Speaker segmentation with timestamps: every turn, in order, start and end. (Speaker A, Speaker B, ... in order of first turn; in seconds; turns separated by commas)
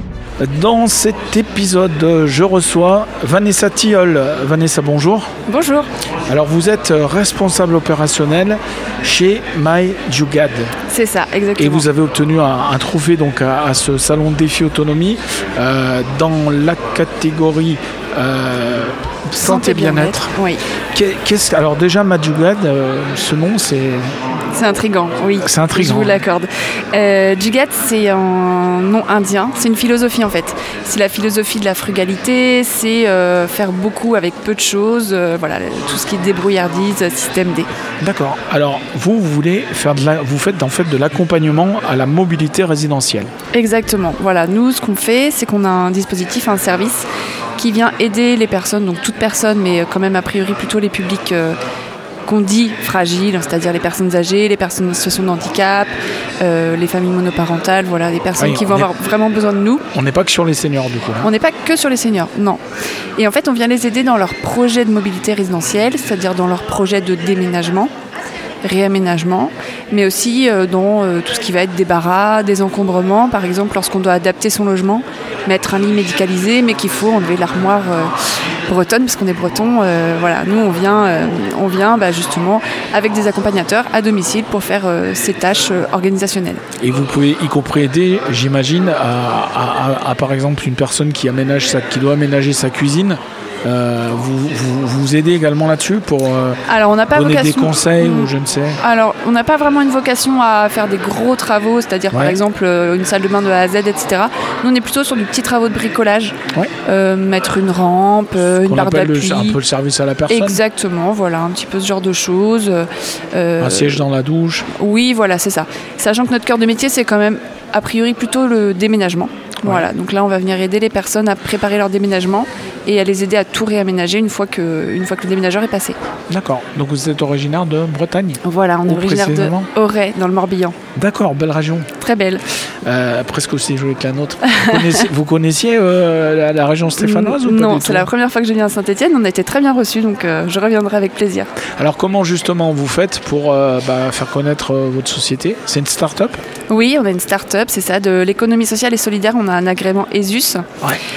Speaker A: 0.4-5.3, Speaker B: 5.5-5.9, Speaker A: 6.3-10.7, Speaker B: 10.9-11.8, Speaker A: 11.6-20.3, Speaker B: 19.4-20.6, Speaker A: 20.9-24.1, Speaker B: 24.5-37.7, Speaker A: 25.4-26.2, Speaker A: 38.0-43.3, Speaker B: 43.5-47.0, Speaker B: 47.6-51.6, Speaker B: 52.2-59.8, Speaker A: 58.4-58.9, Speaker A: 59.9-61.3, Speaker B: 61.2-62.6, Speaker B: 63.2-67.9, Speaker B: 68.6-78.1, Speaker B: 78.7-86.6, Speaker A: 86.8-96.6, Speaker B: 96.7-109.6, Speaker A: 97.1-98.8, Speaker A: 102.1-102.4, Speaker A: 108.6-110.6, Speaker B: 110.3-114.0, Speaker A: 113.6-114.7, Speaker B: 114.7-126.0, Speaker A: 126.3-129.7, Speaker B: 128.4-130.8, Speaker A: 130.9-131.9, Speaker B: 132.0-132.4, Speaker A: 132.8-138.1, Speaker B: 134.5-135.1, Speaker B: 137.0-141.5, Speaker A: 141.8-146.4, Speaker B: 146.7-150.6